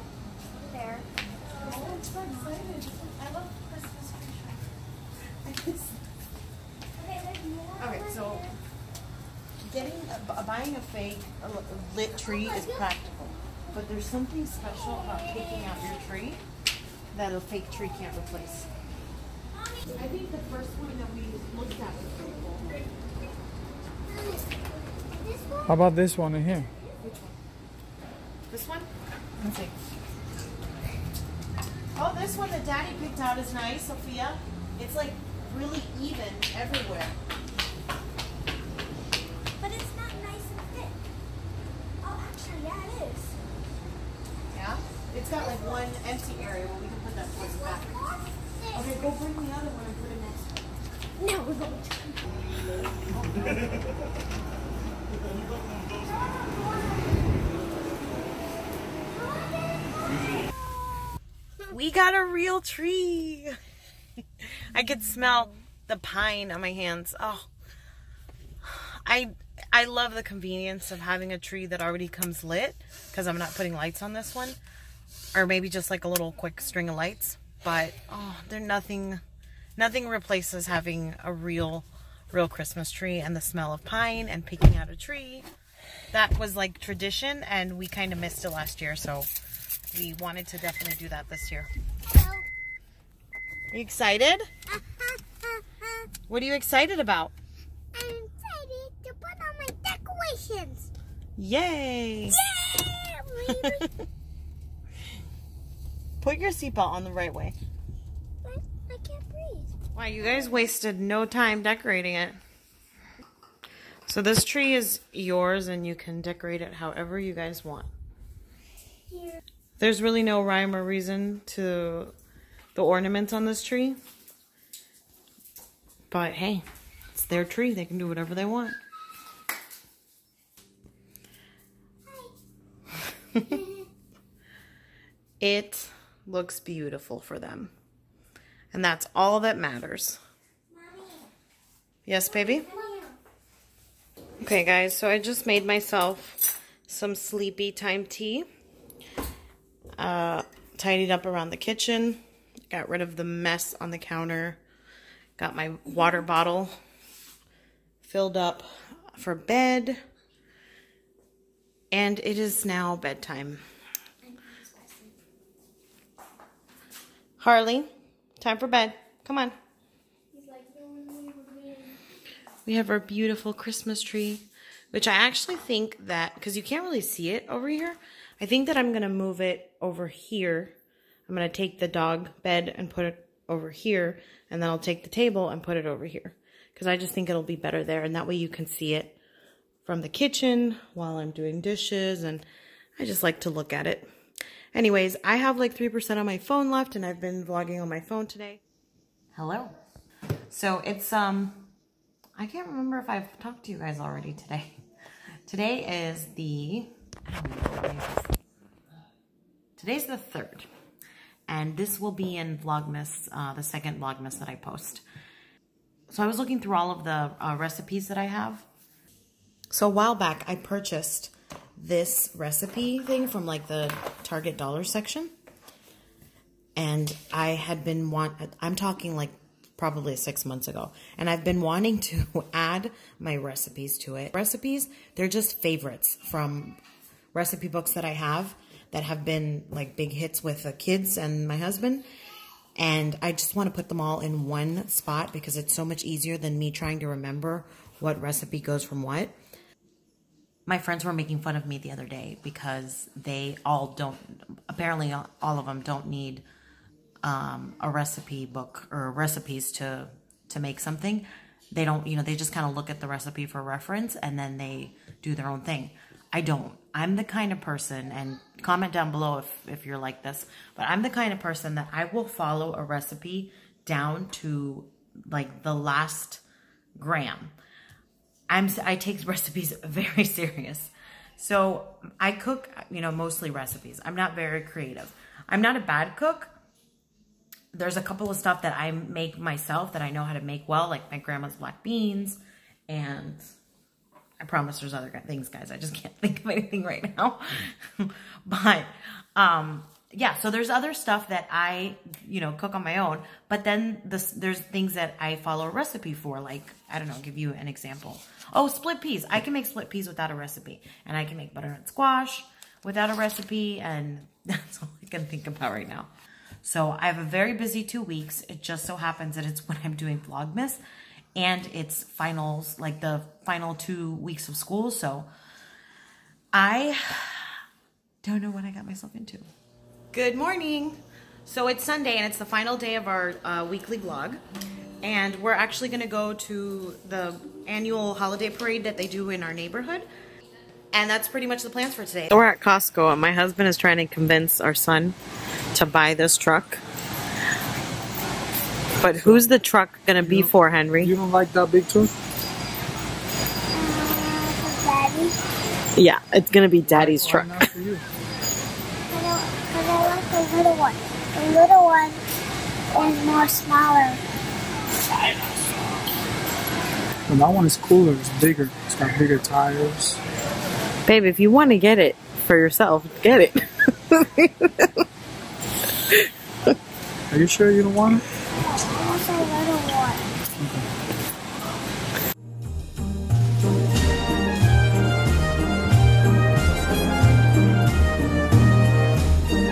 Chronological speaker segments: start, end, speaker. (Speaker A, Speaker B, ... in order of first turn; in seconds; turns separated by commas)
Speaker A: 0.7-1.0, Speaker B: 1.5-4.8, Speaker B: 5.4-6.0, Speaker A: 7.0-7.7, Speaker B: 7.7-8.5, Speaker B: 9.6-16.4, Speaker B: 17.1-18.7, Speaker B: 19.9-22.8, Speaker A: 24.1-25.7, Speaker C: 25.7-26.7, Speaker B: 27.0-27.4, Speaker B: 28.5-29.8, Speaker B: 31.9-37.2, Speaker A: 39.6-41.0, Speaker A: 42.0-43.4, Speaker B: 44.5-48.1, Speaker B: 48.7-50.7, Speaker A: 51.2-52.2, Speaker B: 61.7-63.5, Speaker B: 64.4-67.5, Speaker B: 68.6-74.6, Speaker B: 75.3-79.2, Speaker B: 79.8-85.5, Speaker B: 86.1-89.3, Speaker B: 89.9-91.7, Speaker B: 93.7-94.5, Speaker B: 96.3-97.3, Speaker A: 98.0-100.9, Speaker B: 101.4-102.5, Speaker A: 102.5-103.8, Speaker B: 103.4-103.9, Speaker B: 106.2-107.5, Speaker A: 108.4-109.7, Speaker B: 109.9-112.4, Speaker B: 114.1-117.9, Speaker B: 119.8-122.1, Speaker B: 122.8-124.0, Speaker B: 126.1-128.8, Speaker B: 133.3-133.7, Speaker B: 135.4-137.7, Speaker B: 138.7-140.2, Speaker A: 140.8-141.2, Speaker B: 142.1-142.7, Speaker B: 144.4-148.5, Speaker B: 150.0-152.2, Speaker B: 152.7-154.6, Speaker B: 155.4-156.7, Speaker B: 158.0-160.0, Speaker B: 161.9-163.6, Speaker A: 164.2-165.1, Speaker B: 167.4-167.9, Speaker B: 168.4-169.6, Speaker A: 170.3-171.9, Speaker B: 172.7-180.8, Speaker B: 181.3-189.2, Speaker B: 189.8-192.4, Speaker B: 193.0-194.1, Speaker B: 194.7-198.6, Speaker B: 199.3-199.7, Speaker B: 200.5-201.7, Speaker B: 202.4-204.7, Speaker B: 205.5-208.3, Speaker B: 209.8-210.7, Speaker B: 211.5-215.0, Speaker B: 216.1-218.7, Speaker B: 219.7-225.3, Speaker B: 226.8-236.8, Speaker B: 237.3-242.1, Speaker B: 242.8-249.3, Speaker B: 250.7-256.4, Speaker B: 257.2-276.4, Speaker B: 277.0-277.5, Speaker B: 278.5-286.6, Speaker B: 287.7-292.4, Speaker B: 292.9-293.4, Speaker B: 294.4-316.1, Speaker B: 316.6-320.8, Speaker B: 321.4-325.3, Speaker B: 326.5-327.6, Speaker B: 328.2-329.5, Speaker B: 330.1-334.4, Speaker B: 335.0-340.1, Speaker B: 340.9-345.2, Speaker B: 345.7-346.8, Speaker B: 349.0-351.1, Speaker C: 350.2-350.5, Speaker C: 351.0-352.1, Speaker A: 353.8-355.4, Speaker B: 355.9-357.6, Speaker C: 356.9-358.0, Speaker A: 359.1-362.2, Speaker A: 362.9-364.2, Speaker C: 367.3-370.2, Speaker B: 371.1-375.0, Speaker C: 377.3-378.2, Speaker A: 378.7-380.2, Speaker C: 380.6-380.9